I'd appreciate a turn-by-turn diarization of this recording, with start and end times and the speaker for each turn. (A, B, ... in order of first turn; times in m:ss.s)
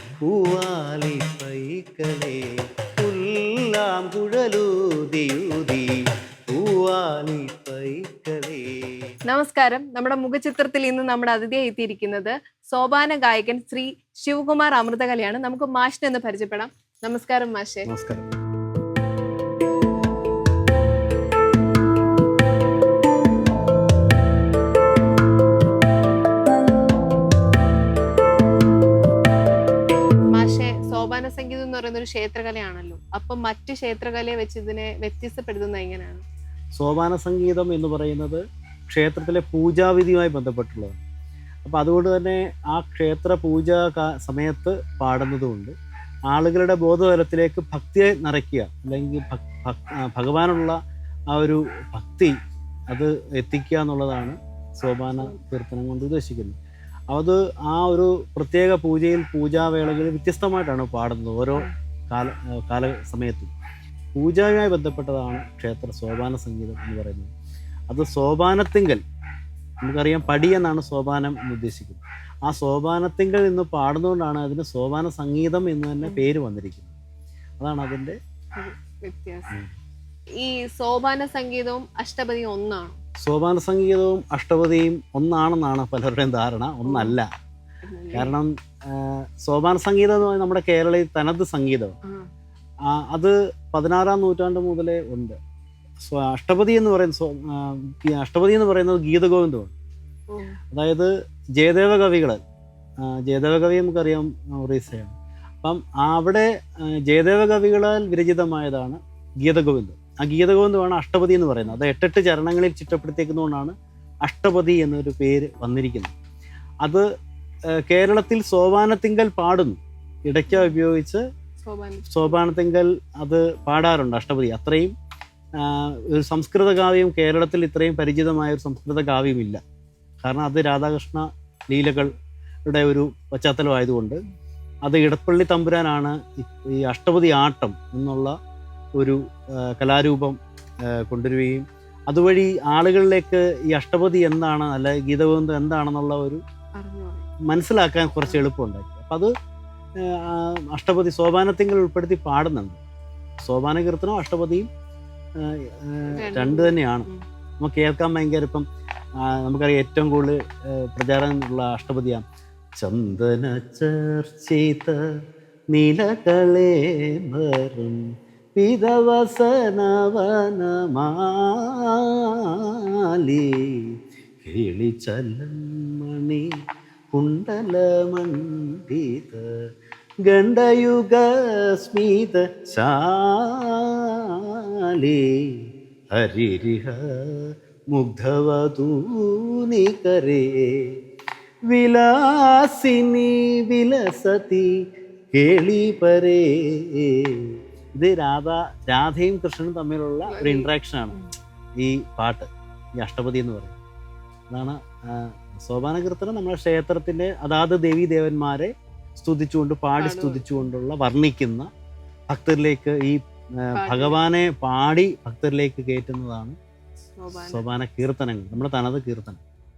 0:00.2-0:05.9 A
0:06.5-0:09.0 A
0:09.2-0:17.9 B
0:17.8-0:18.2 A
0:30.3-0:36.2 B
0:36.8-0:40.9 A
0:41.6-0:45.7 A
0:46.3-0:50.8 A
0:51.3-0:52.3 A
0:52.9-0:56.6 A
0:57.1-1:03.5 A
1:04.2-1:07.3 A
1:07.9-1:09.0 A
1:09.8-1:16.9 A
1:17.6-1:18.2 A
1:18.6-1:19.5 B
1:20.4-1:23.0 B
1:23.2-1:27.3 A
1:26.8-1:27.2 B
1:27.8-1:28.3 B
1:28.1-1:31.9 A
1:32.9-1:35.4 A
1:36.0-1:39.7 A
1:40.3-1:40.6 B
1:40.7-1:42.4 A
1:43.2-1:46.5 A
1:47.0-1:53.7 A
1:54.2-1:56.1 A
1:57.8-2:01.2 A
2:00.5-2:00.7 B
2:01.6-2:02.4 B
2:02.1-2:04.9 A
2:05.6-2:09.6 A
2:10.2-2:12.1 A
2:12.7-2:14.2 A
2:14.8-2:18.3 A
2:19.0-2:20.4 A
2:20.9-2:26.4 A
2:26.8-2:27.3 B
2:27.5-2:29.3 A
2:30.0-2:32.8 A
2:33.4-2:34.7 A
2:35.4-2:37.1 A
2:36.1-2:37.2 B
2:37.6-2:38.6 A
2:39.2-2:42.2 A
2:42.8-2:45.0 A
2:45.7-2:48.0 A
2:48.6-2:53.9 A
2:54.4-2:56.5 A
2:57.1-2:59.6 A
3:00.3-3:05.6 A
3:06.2-3:10.9 A
3:11.7-3:14.7 A
3:15.3-3:21.2 A
3:20.3-3:21.2 B
3:21.8-3:22.5 A
3:23.0-3:23.8 A
3:24.5-3:31.7 A
3:30.0-3:30.7 B
3:32.3-3:36.6 A
3:33.7-3:34.2 B
3:37.2-3:37.6 B
3:37.4-3:39.4 A